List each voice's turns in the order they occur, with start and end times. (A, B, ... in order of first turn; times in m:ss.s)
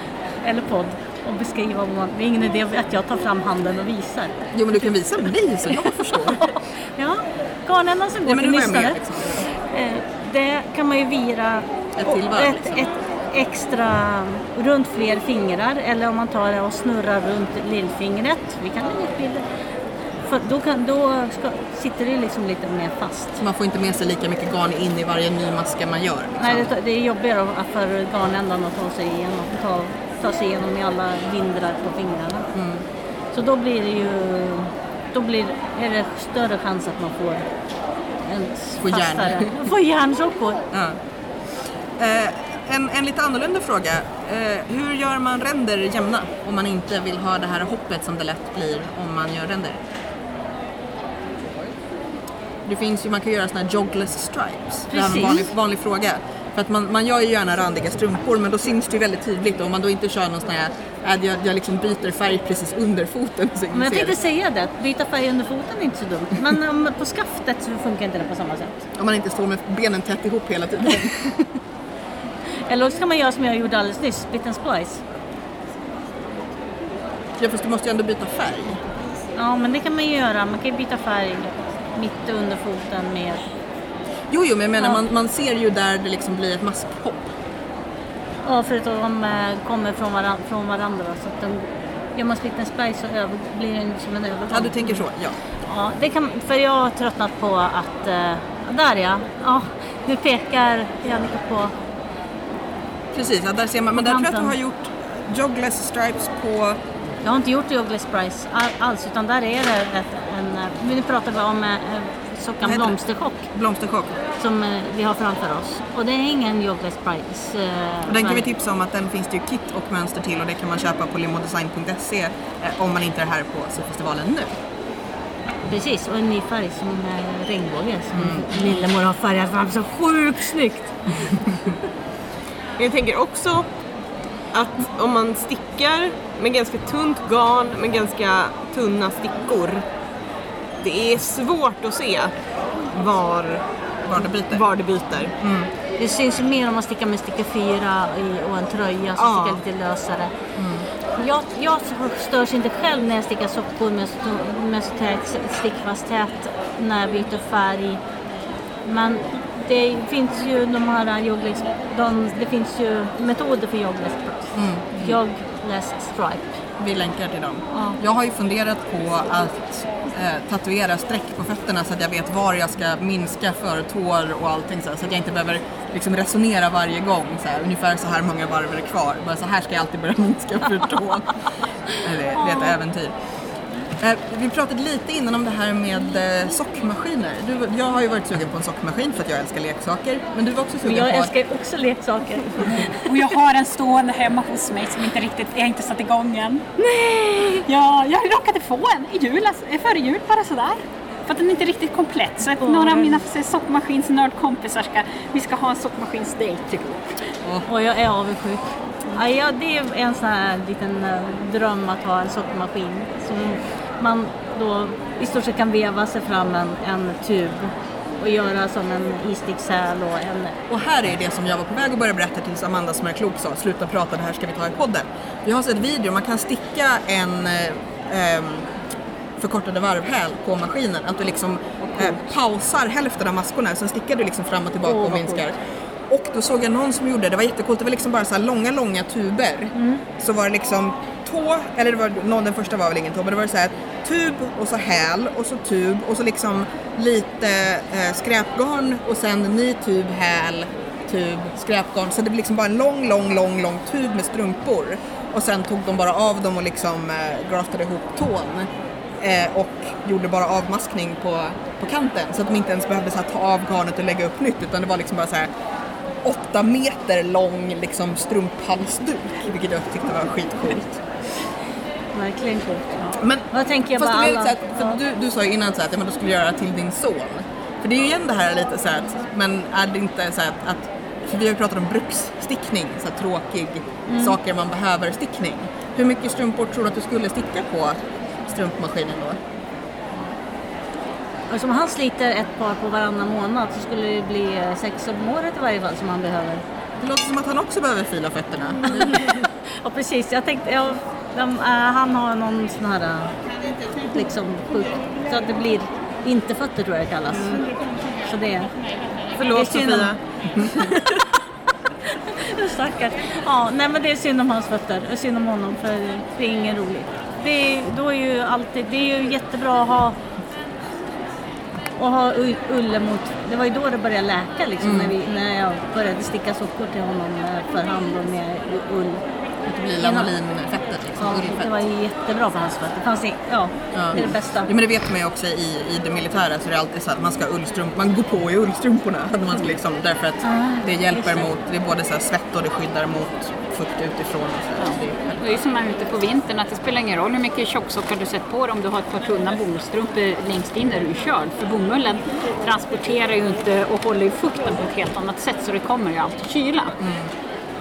0:00.4-0:04.4 A
0:04.5-0:06.4 B
0:06.1-0:09.0 A
0:08.2-0:09.4 B
0:09.5-0:19.4 A
0:12.0-0:12.8 B
0:20.2-0:23.4 A
0:23.4-0:26.7 B
0:26.4-0:32.5 A
0:32.5-0:32.9 B
0:33.3-0:37.4 A
0:38.2-0:40.6 A
0:38.8-0:39.5 B
0:40.7-0:41.0 B
0:42.0-0:49.8 B
0:52.6-1:04.2 B
0:54.9-0:55.5 A
1:03.7-1:08.8 A
1:09.0-1:11.3 B
1:12.7-1:15.0 A
1:17.4-1:18.8 B
1:19.3-1:23.4 A
1:24.3-1:27.3 B
1:28.4-1:35.0 A
1:34.5-1:35.4 B
1:35.7-1:41.7 A
1:43.1-1:46.8 B
1:43.9-1:44.5 A
1:47.2-1:53.5 A
1:52.6-1:53.0 B
1:53.5-1:54.2 B
1:54.4-1:58.4 A
1:58.0-2:04.6 B
2:05.6-2:11.5 A
2:08.1-2:08.8 B
2:12.8-2:13.6 C
2:14.5-2:19.8 C
2:20.8-2:22.3 C
2:22.9-2:23.6 C
2:24.1-2:24.6 B
2:24.4-2:25.3 C
2:25.4-2:25.7 B
2:26.0-2:30.3 A
2:29.2-2:29.6 C
2:30.6-2:30.9 B
2:31.1-2:38.0 A
2:38.8-2:46.6 A
2:44.5-2:45.2 B
2:46.8-3:01.3 B
2:47.7-2:48.0 A
3:02.0-3:03.1 B
3:02.4-3:02.8 A
3:04.0-3:11.3 B
3:10.8-3:13.0 A
3:13.0-3:16.7 D
3:16.8-3:17.6 A
3:17.6-3:27.3 D
3:22.6-3:23.2 A
3:27.7-3:40.6 A
3:40.7-3:48.7 B
3:49.4-3:55.6 B
3:54.8-3:55.4 A
3:56.1-4:25.5 B
3:59.7-4:00.0 A
4:26.2-4:31.0 B
4:32.1-4:35.0 A
4:33.2-4:49.4 B
4:44.1-4:44.4 A
4:51.5-4:56.6 A
4:57.0-4:59.2 B
4:58.9-5:03.3 A
5:04.0-5:07.7 A
5:07.3-5:07.6 C
5:08.2-5:08.7 A
5:09.3-5:10.2 C
5:09.5-5:11.3 A
5:12.1-5:20.2 A
5:22.0-5:29.2 A
5:24.8-5:25.2 B
5:29.6-5:31.7 B
5:30.0-5:30.3 A
5:31.2-5:34.7 A
5:33.9-5:45.4 B
5:40.4-5:41.4 A
5:45.4-5:57.0 D
5:57.0-5:57.3 B